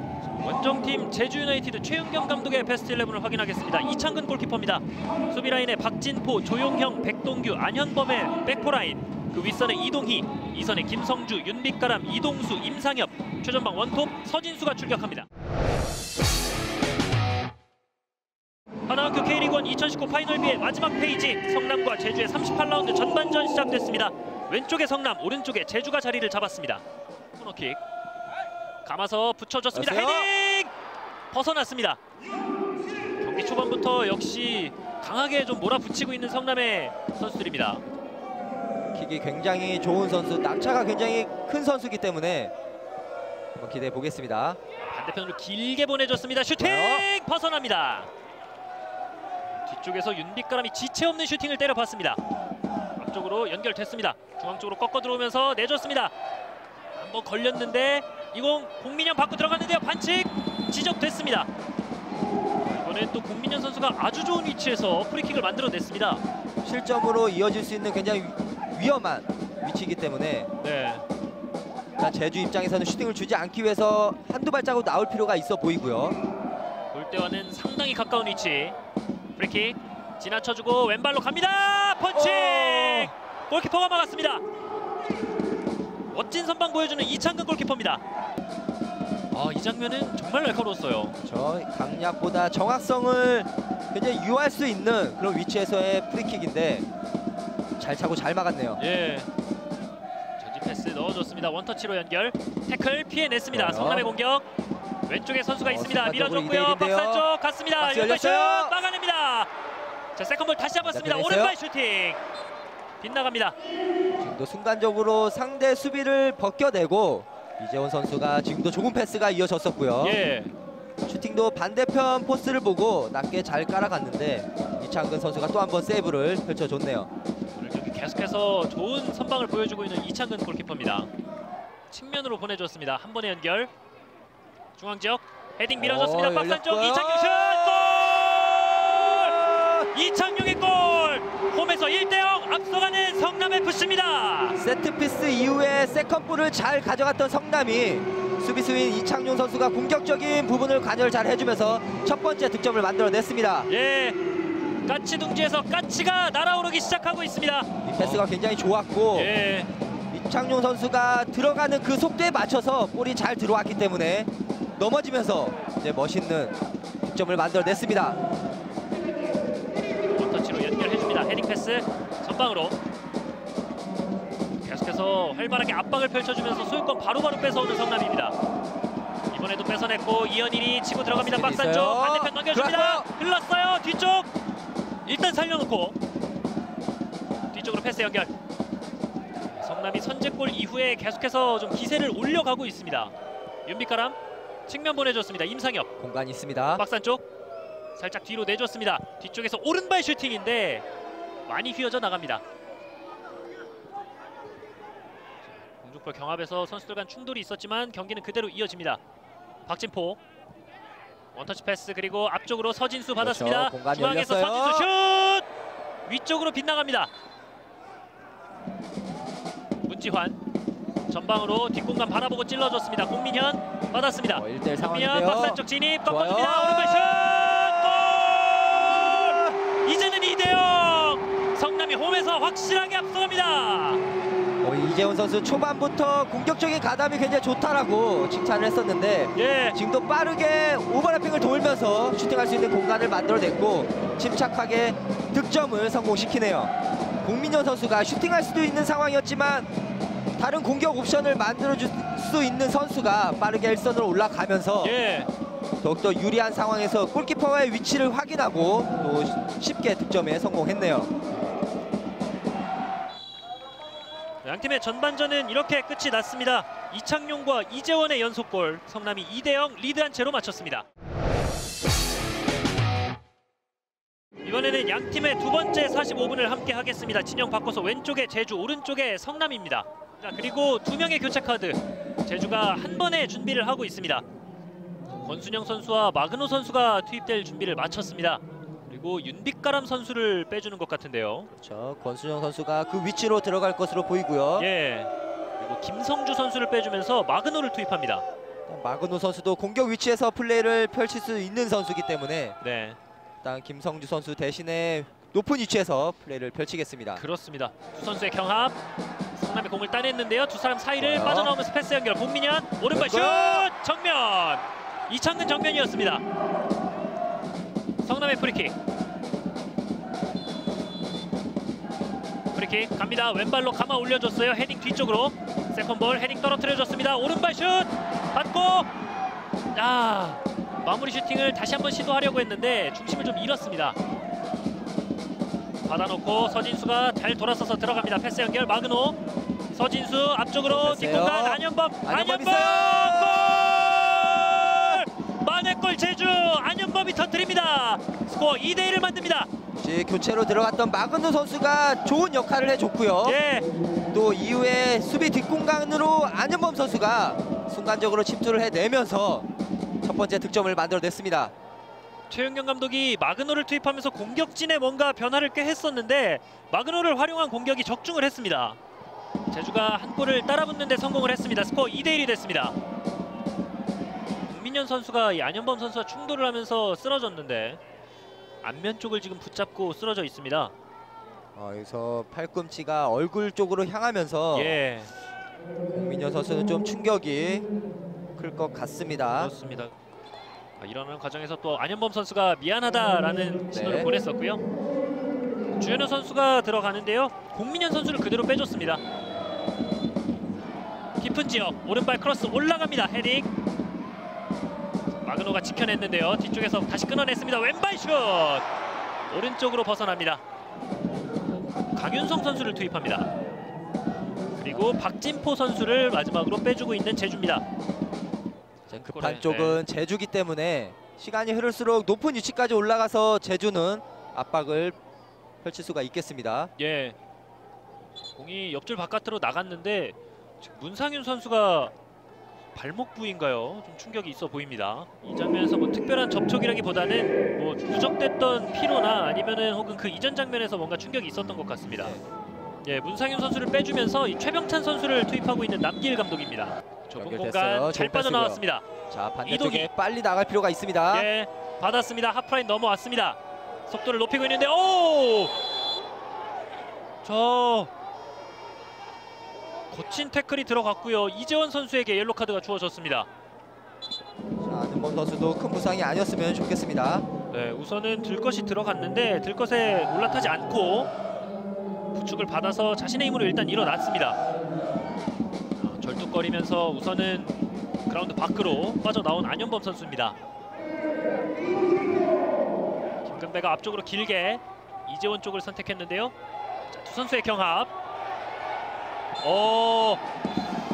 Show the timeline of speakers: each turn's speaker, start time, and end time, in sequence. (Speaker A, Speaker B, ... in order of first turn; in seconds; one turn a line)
Speaker A: 0.4-15.3
Speaker A: 18.9-26.8
Speaker A: 27.3-27.8
Speaker A: 28.9-30.7
Speaker B: 29.7-30.3
Speaker A: 31.3-32.0
Speaker A: 33.2-37.8
Speaker B: 38.9-42.5
Speaker B: 43.5-44.6
Speaker A: 44.8-48.1
Speaker B: 46.6-47.1
Speaker A: 49.6-52.2
Speaker A: 53.0-56.1
Speaker A: 57.0-61.5
Speaker A: 62.6-66.2
Speaker B: 66.6-70.5
Speaker A: 70.6-71.0
Speaker B: 72.0-76.2
Speaker A: 76.9-78.8
Speaker A: 79.4-84.4
Speaker B: 82.1-83.1
Speaker A: 86.1-88.0
Speaker A: 89.3-91.2
Speaker B: 91.2-96.9
Speaker B: 97.8-98.8
Speaker A: 98.8-99.3
Speaker A: 100.4-104.5
Speaker B: 103.5-104.1
Speaker A: 105.1-109.5
Speaker B: 105.6-107.3
Speaker B: 107.8-108.8
Speaker A: 110.2-112.2
Speaker B: 110.8-111.5
Speaker A: 113.0-113.5
Speaker B: 114.2-120.2
Speaker A: 120.0-120.5
Speaker B: 121.1-127.1
Speaker A: 127.6-131.1
Speaker A: 131.9-133.7
Speaker A: 134.8-139.4
Speaker B: 135.8-138.1
Speaker B: 139.0-139.9
Speaker A: 139.9-144.6
Speaker B: 144.6-153.7
Speaker A: 153.7-154.2
Speaker A: 154.9-158.3
Speaker B: 157.8-159.3
Speaker A: 159.1-159.7
Speaker B: 160.1-168.2
Speaker A: 170.2-172.8
Speaker A: 174.6-178.4
Speaker A: 179.3-184.3
Speaker B: 181.1-183.1
Speaker A: 185.1-185.9
Speaker A: 187.5-188.3
Speaker A: 189.4-193.1
Speaker A: 193.7-194.2
Speaker A: 194.7-195.9
Speaker B: 196.0-196.8
Speaker A: 196.8-197.2
Speaker A: 198.0-200.8
Speaker A: 201.5-202.4
Speaker A: 205.6-209.0
Speaker A: 209.7-210.2
Speaker A: 211.3-215.5
Speaker B: 213.2-214.9
Speaker A: 216.1-217.1
Speaker A: 219.8-220.4
Speaker A: 221.1-234.0
Speaker B: 224.3-228.1
Speaker B: 228.9-229.6
Speaker B: 234.6-246.7
Speaker A: 239.3-239.8
Speaker B: 247.2-249.7
Speaker B: 250.4-255.0
Speaker A: 254.8-255.3
Speaker B: 255.8-261.1
Speaker A: 264.4-270.9
Speaker A: 274.4-284.2
Speaker A: 285.2-291.5
Speaker B: 291.5-294.7
Speaker A: 294.6-298.2
Speaker B: 298.7-302.6
Speaker A: 302.6-303.0
Speaker B: 303.4-307.2
Speaker A: 307.2-308.8
Speaker A: 309.4-316.2
Speaker B: 311.0-311.6
Speaker B: 312.9-313.7
Speaker A: 318.0-318.7
Speaker A: 322.5-328.9
Speaker A: 329.8-334.0
Speaker A: 335.9-339.2
Speaker A: 339.7-349.5
Speaker B: 340.6-343.7
Speaker B: 349.8-353.4
Speaker A: 353.2-353.7
Speaker B: 354.1-359.5
Speaker B: 360.0-361.5
Speaker A: 362.3-368.8
Speaker A: 369.5-372.8
Speaker A: 374.5-377.8
Speaker A: 378.6-380.7
Speaker B: 381.6-384.8
Speaker A: 384.5-385.1
Speaker B: 385.9-387.7
Speaker B: 388.4-389.5
Speaker A: 389.4-389.9
Speaker A: 390.8-394.6
Speaker B: 393.7-394.1
Speaker A: 395.8-399.0
Speaker A: 401.2-403.5
Speaker A: 405.2-408.7
Speaker A: 409.3-410.4
Speaker A: 411.9-413.3
Speaker A: 414.6-417.6
Speaker B: 418.9-425.0
Speaker A: 419.1-419.8
Speaker B: 425.6-426.7
Speaker A: 426.8-427.2
Speaker A: 428.4-431.9
Speaker A: 432.8-442.2
Speaker A: 442.8-448.9
Speaker B: 447.1-451.3
Speaker A: 449.4-449.9
Speaker A: 451.1-455.5
Speaker A: 457.2-457.9
Speaker A: 459.9-463.3
Speaker B: 464.6-467.3
Speaker A: 467.5-471.1
Speaker A: 472.1-474.4
Speaker A: 475.8-480.4
Speaker A: 483.2-486.3
Speaker A: 486.9-487.9
Speaker A: 489.4-490.2